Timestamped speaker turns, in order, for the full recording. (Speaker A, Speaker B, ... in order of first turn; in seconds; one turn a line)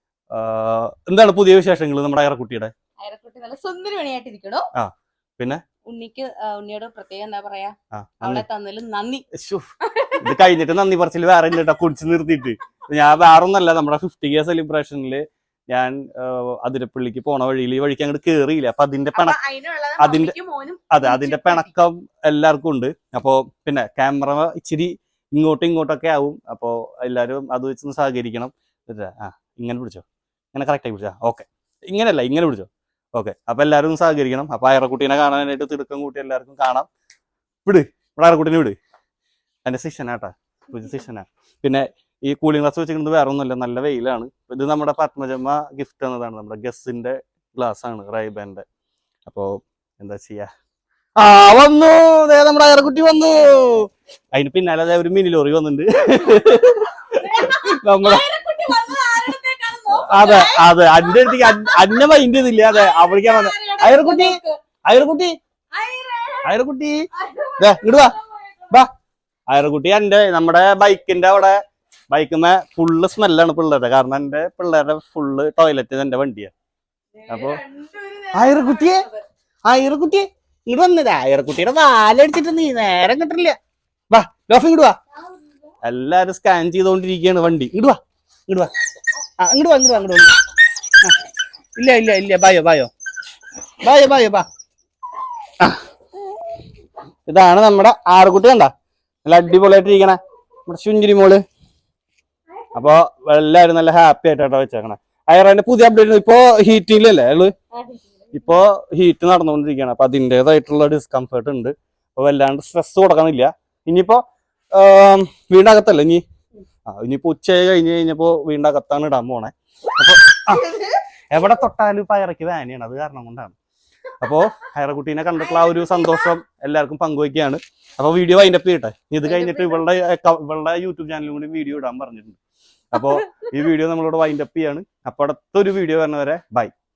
Speaker A: 0.3-2.7
Speaker B: 3.0-4.7
Speaker A: 4.8-5.7
Speaker B: 5.9-9.2
Speaker A: 7.9-8.4
Speaker A: 9.3-9.7
Speaker B: 9.8-10.3
Speaker A: 10.2-19.4
Speaker B: 19.1-21.7
Speaker A: 20.0-20.3
Speaker A: 20.9-36.9
Speaker A: 37.6-38.8
Speaker A: 39.6-48.6
Speaker A: 49.3-50.5
Speaker A: 51.2-58.3
Speaker B: 57.1-62.0
Speaker A: 60.0-65.3
Speaker B: 62.7-64.6
Speaker B: 65.7-66.5
Speaker A: 66.4-68.9
Speaker B: 67.1-68.7
Speaker A: 69.5-71.6
Speaker A: 72.1-76.5
Speaker B: 77.2-79.2
Speaker A: 77.3-77.6
Speaker A: 78.3-79.1
Speaker A: 79.7-83.6
Speaker A: 84.1-85.0
Speaker A: 85.8-88.7
Speaker A: 89.4-90.4
Speaker A: 91.8-92.9
Speaker A: 93.8-94.5
Speaker A: 97.3-98.7
Speaker A: 99.2-101.4
Speaker A: 102.7-107.5
Speaker B: 107.7-108.5
Speaker A: 108.3-114.2
Speaker A: 114.7-116.2
Speaker A: 116.9-123.6
Speaker A: 124.2-132.4
Speaker B: 129.2-129.8
Speaker A: 132.9-136.7
Speaker B: 133.0-133.5